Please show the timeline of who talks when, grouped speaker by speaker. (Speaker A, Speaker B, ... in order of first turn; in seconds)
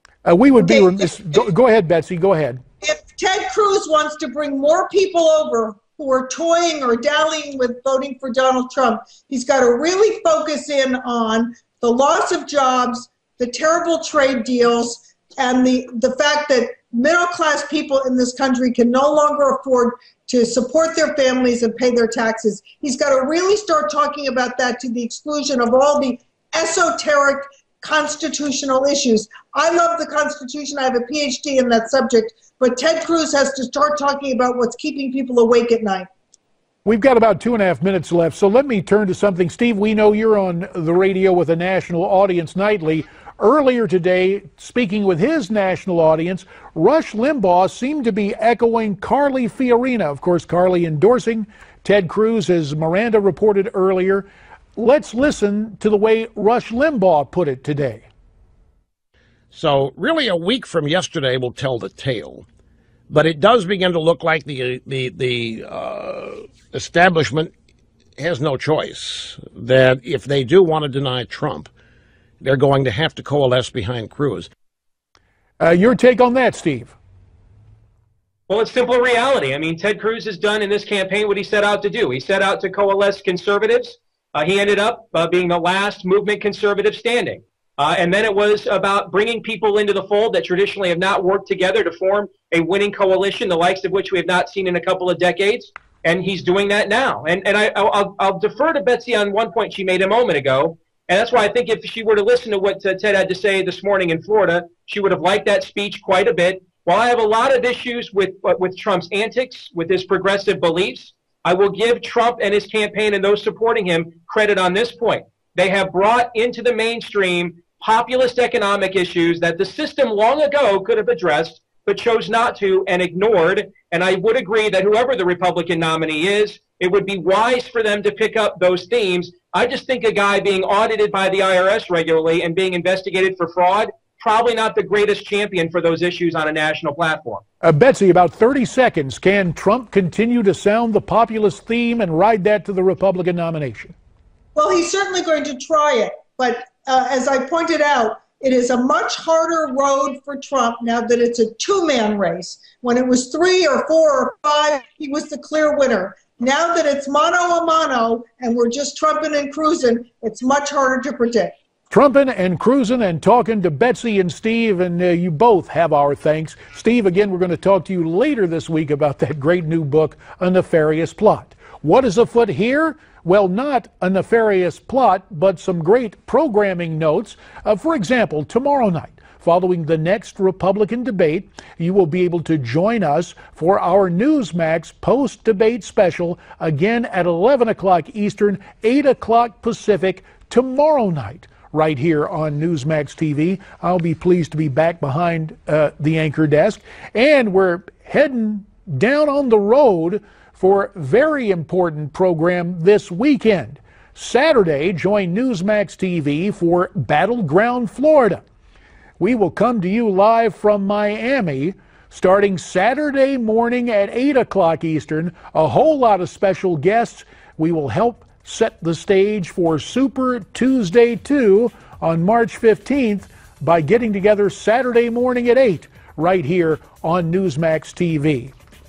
Speaker A: 0.2-2.6, 36.9-58.1, 75.6-77.0, 137.6-143.9, 161.9-208.4, 209.2-228.5
Speaker B: 0.6-1.0, 2.8-36.1, 144.6-161.5
Speaker C: 59.5-62.5, 63.1-67.5, 68.2-71.7, 72.4-74.5
Speaker D: 78.5-137.4